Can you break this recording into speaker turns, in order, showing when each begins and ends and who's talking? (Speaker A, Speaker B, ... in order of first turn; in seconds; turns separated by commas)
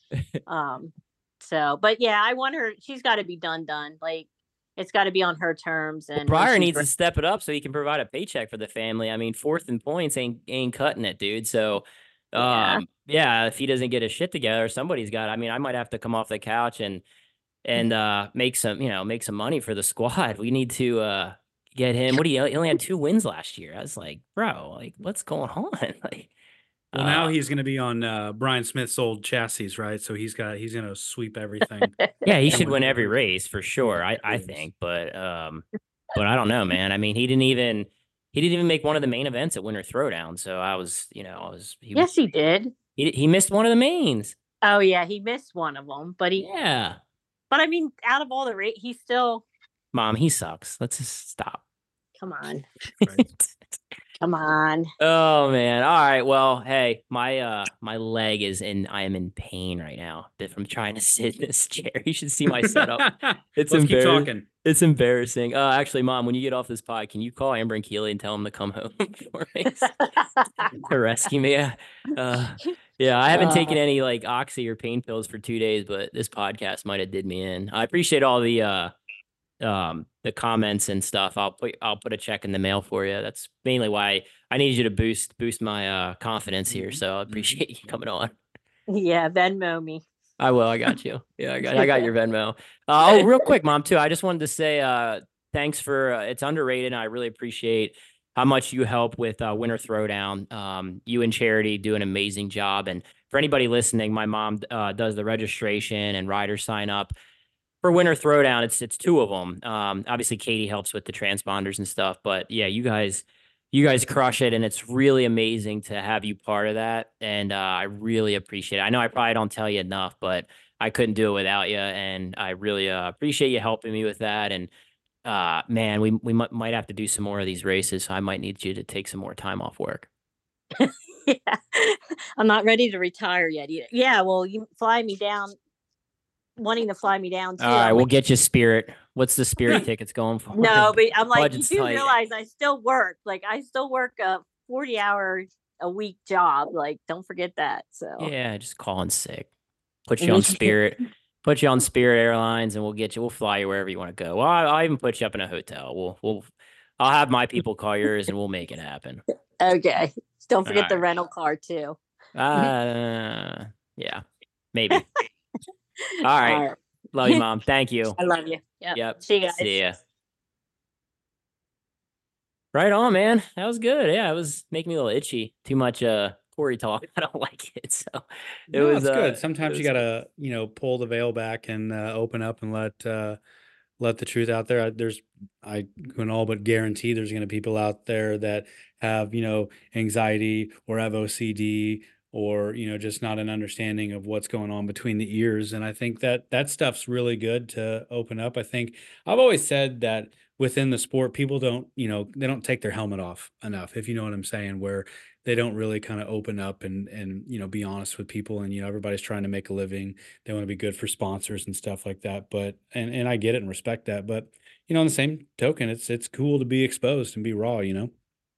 Speaker A: 0.5-6.8, Speaker B: 6.2-17.0, Speaker A: 12.4-12.8, Speaker B: 17.6-26.3, Speaker B: 26.9-27.3, Speaker C: 26.9-31.9, Speaker A: 32.0-32.7, Speaker B: 32.2-42.1, Speaker C: 32.5-33.0, Speaker A: 42.0-42.7, Speaker B: 43.0-44.4, Speaker A: 44.6-46.5, Speaker B: 46.4-47.0, Speaker A: 47.5-49.4, Speaker B: 49.9-51.6, Speaker A: 52.2-52.6, Speaker B: 53.0-53.5, Speaker A: 54.2-54.9, Speaker B: 55.0-69.9, Speaker C: 62.5-64.5, Speaker A: 69.8-70.7, Speaker B: 70.7-78.9, Speaker A: 73.3-73.8, Speaker B: 79.6-88.3, Speaker A: 88.9-90.0, Speaker B: 90.4-107.1, Speaker A: 91.7-92.1, Speaker A: 93.0-93.4, Speaker B: 107.8-124.7, Speaker B: 125.2-130.1, Speaker A: 130.8-135.6, Speaker A: 136.6-138.1, Speaker B: 137.6-142.1, Speaker A: 140.6-148.3, Speaker B: 148.2-149.5, Speaker B: 150.1-156.4, Speaker A: 150.2-150.8, Speaker B: 157.0-159.2, Speaker A: 159.6-162.0, Speaker B: 160.7-161.0, Speaker B: 162.3-165.1, Speaker B: 166.2-168.2, Speaker A: 166.4-167.4, Speaker A: 168.2-169.8, Speaker B: 168.9-170.0, Speaker B: 172.7-180.0, Speaker C: 178.7-183.4, Speaker C: 184.0-218.1